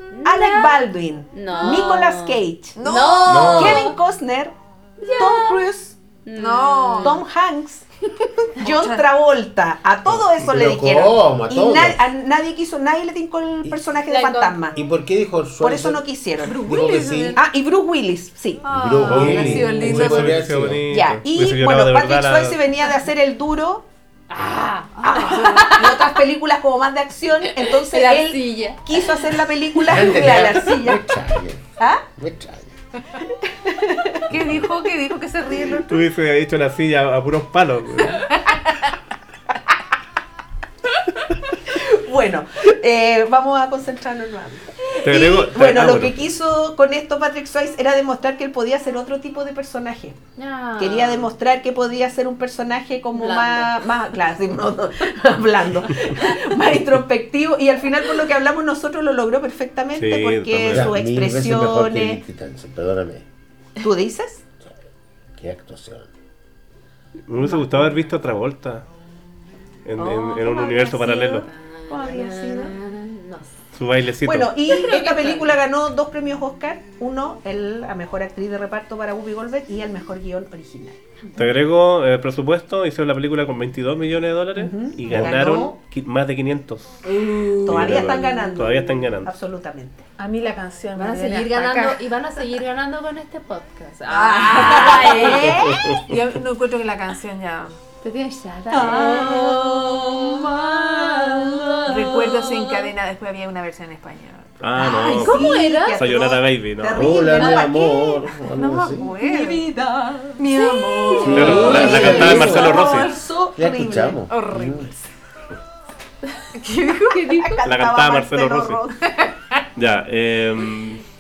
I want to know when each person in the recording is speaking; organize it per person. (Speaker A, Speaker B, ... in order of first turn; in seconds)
Speaker A: 0.1-4.0, 5.0-5.6, 6.2-7.2, 14.1-14.7, 24.3-26.2, 27.9-28.8, 50.4-51.3, 53.1-53.8, 67.4-67.8, 71.4-73.5, 74.7-75.6, 87.0-88.4, 90.9-95.6, 98.0-102.8, 105.2-106.0, 109.2-113.0, 117.1-117.6
Speaker B: 0.2-2.8, 3.5-4.5, 5.2-6.0, 7.0-7.9, 8.4-14.8, 15.6-16.7, 17.4-18.7, 20.9-23.9, 24.4-31.1, 31.8-32.0, 33.5-34.3, 41.6-50.2, 50.8-62.2, 63.8-64.4, 70.0-72.7, 74.2-81.0, 84.6-85.8, 87.6-90.1, 94.3-96.0, 98.7-102.3, 104.8-108.3, 109.3-110.0, 111.1-114.3, 117.4-119.0
Speaker C: 1.5-1.9, 2.8-3.8, 6.3-7.2, 8.6-9.0, 16.5-17.4, 18.6-20.4, 25.3-25.7, 34.3-36.0, 38.1-38.9, 90.2-92.0, 94.1-97.8, 98.8-99.3, 101.9-104.5, 105.2-105.9, 107.4-109.7, 110.4-112.3, 114.3-114.9, 116.5-117.6, 119.1-119.3
Speaker D: 3.3-3.9, 10.1-12.1, 14.7-17.4, 18.7-20.8, 29.9-32.7, 60.7-63.2, 65.3-66.1, 106.9-109.2, 111.2-112.8, 113.6-114.9
Speaker E: 19.1-22.7, 35.7-38.3, 45.0-46.3, 59.9-61.0, 67.3-68.8, 69.8-71.5, 73.7-74.6, 81.4-86.9, 87.7-89.3, 95.5-96.2, 104.6-107.2, 111.3-113.1, 117.7-118.8, 119.8-121.0